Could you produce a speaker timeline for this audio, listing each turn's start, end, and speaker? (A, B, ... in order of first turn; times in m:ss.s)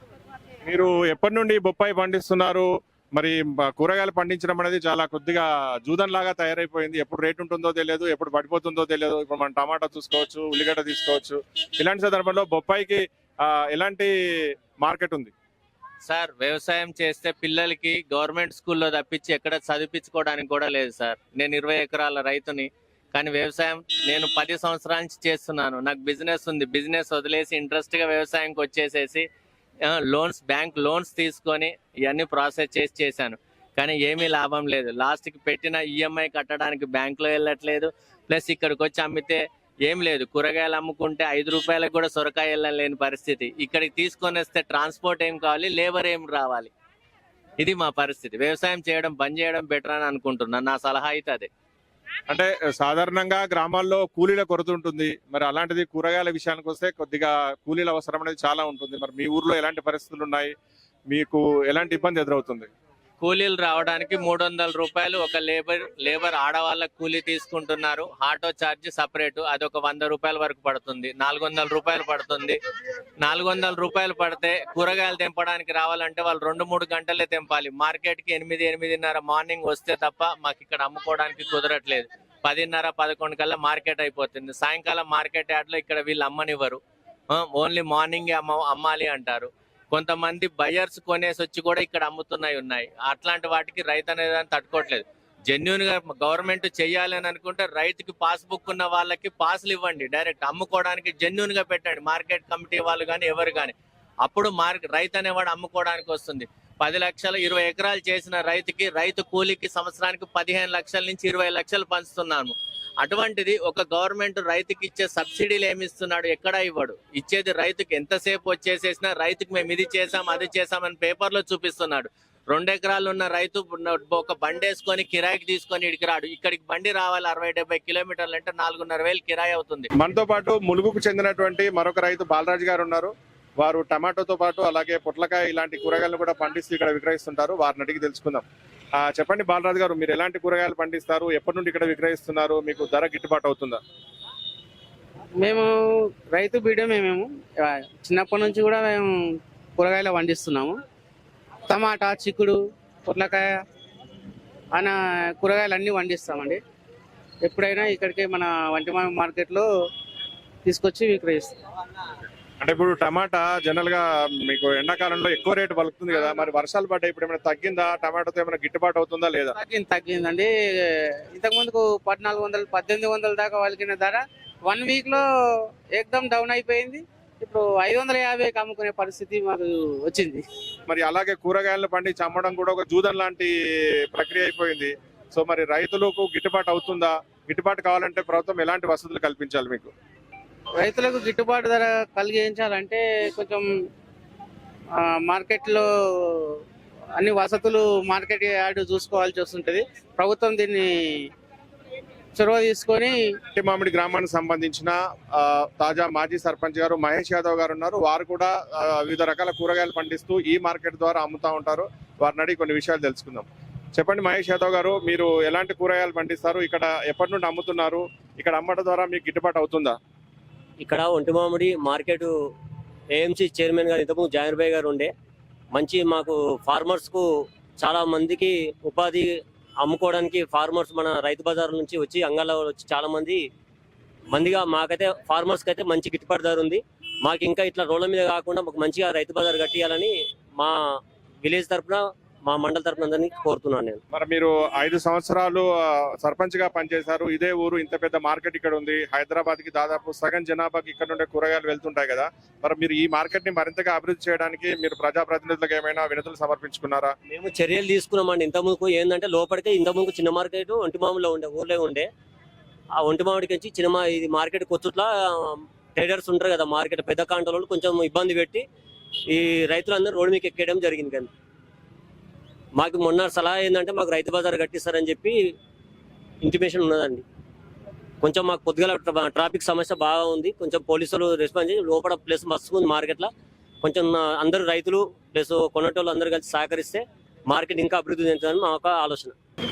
0:00.6-0:14.1 A
0:14.8-0:15.3 A
0:16.0-0:29.2 B
0:29.9-0:46.7 B
0:47.6-0:51.5 B
0:52.3-1:00.5 A
1:01.1-1:02.7 A
1:03.2-1:12.6 B
1:13.2-1:26.8 B
1:27.3-2:09.9 B
2:10.0-2:18.4 A
2:19.0-2:23.8 A
2:25.4-2:25.7 C
2:26.3-2:30.8 C
2:31.7-2:33.6 C
2:34.7-2:36.6 C
2:37.4-2:39.7 C
2:40.6-2:41.5 C
2:42.6-2:49.5 A
2:49.5-2:55.2 C
2:55.9-3:00.4 C
3:00.9-3:03.5 A
3:04.1-3:09.9 A
3:10.8-3:13.7 C
3:14.9-3:16.6 C
3:17.2-3:21.3 C
3:22.3-3:23.3 C
3:23.5-3:40.0 A
3:40.8-3:42.3 D
3:43.1-3:45.1 D
3:45.7-3:47.2 D
3:47.8-3:49.3 D
3:49.8-3:53.4 D
3:54.3-4:00.8 D
4:01.4-4:04.0 D
4:04.1-4:17.1 A
4:17.3-4:22.1 D
4:23.0-4:28.6 D
4:29.3-4:31.3 D
4:32.8-4:35.5 D
4:36.4-4:37.2 D
4:38.2-4:43.3 D
4:43.8-4:49.3 D